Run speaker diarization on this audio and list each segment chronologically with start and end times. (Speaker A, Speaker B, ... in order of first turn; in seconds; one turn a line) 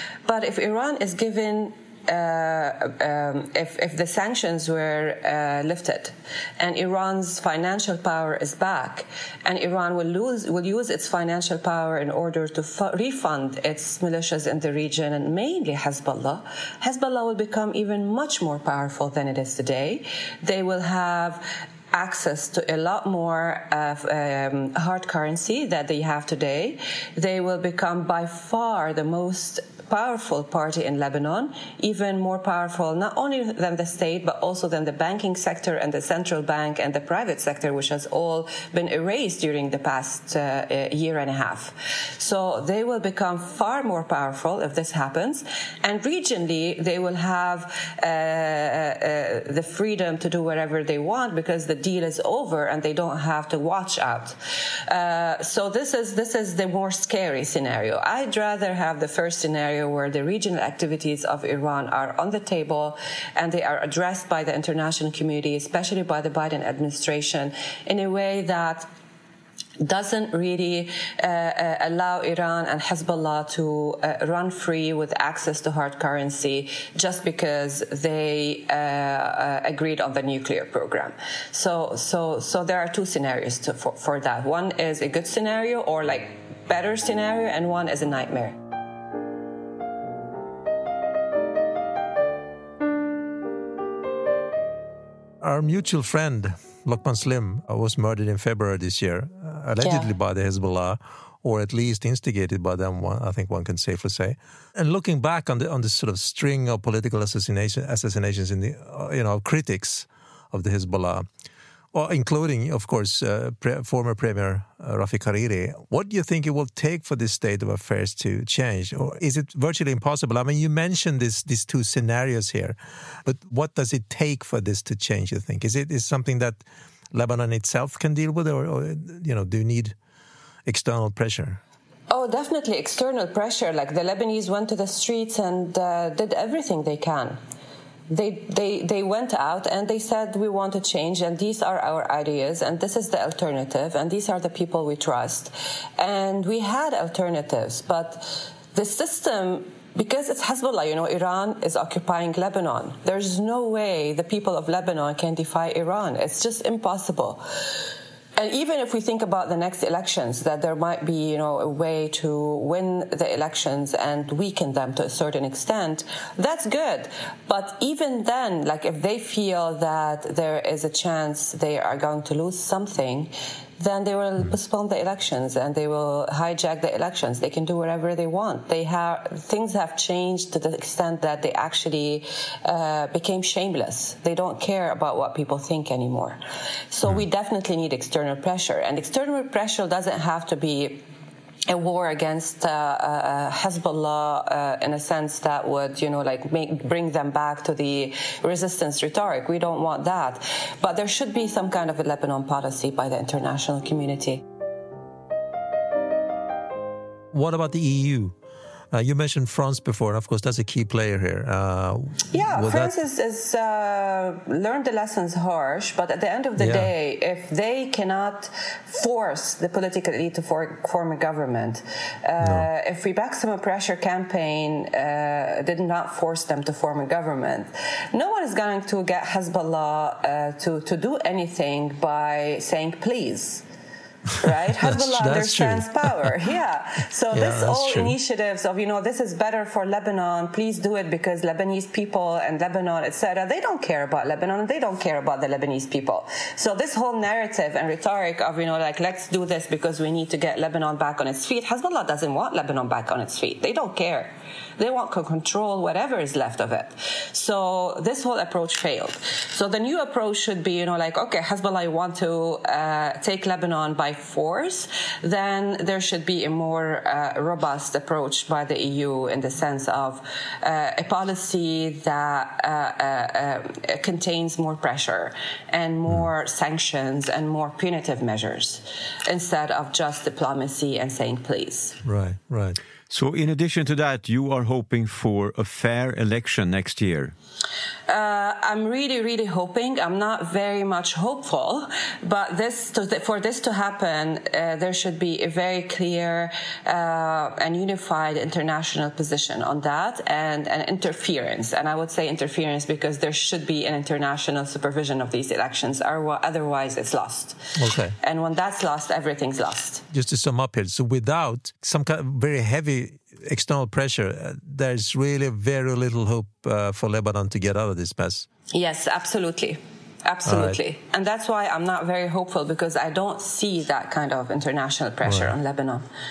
Speaker A: 0.3-68.9
Speaker A: 69.8-88.6
Speaker B: 95.4-111.3
Speaker A: 99.8-100.1
Speaker B: 111.9-130.0
Speaker B: 130.7-131.6
Speaker A: 132.1-137.4
Speaker A: 138.1-157.4
Speaker A: 158.4-186.4
Speaker A: 186.9-191.0
Speaker A: 191.7-204.4
Speaker B: 207.3-208.3
Speaker B: 208.9-212.9
Speaker A: 212.3-233.6
Speaker B: 216.6-216.9
Speaker B: 222.4-222.7
Speaker A: 234.4-282.0
Speaker B: 234.8-236.3
Speaker B: 237.3-238.2
Speaker B: 282.0-282.8
Speaker C: 283.1-287.3
Speaker A: 288.1-307.6
Speaker B: 307.8-308.2
Speaker A: 308.2-310.1
Speaker B: 310.1-318.5
Speaker A: 318.7-326.1
Speaker B: 320.5-320.8
Speaker B: 325.2-325.5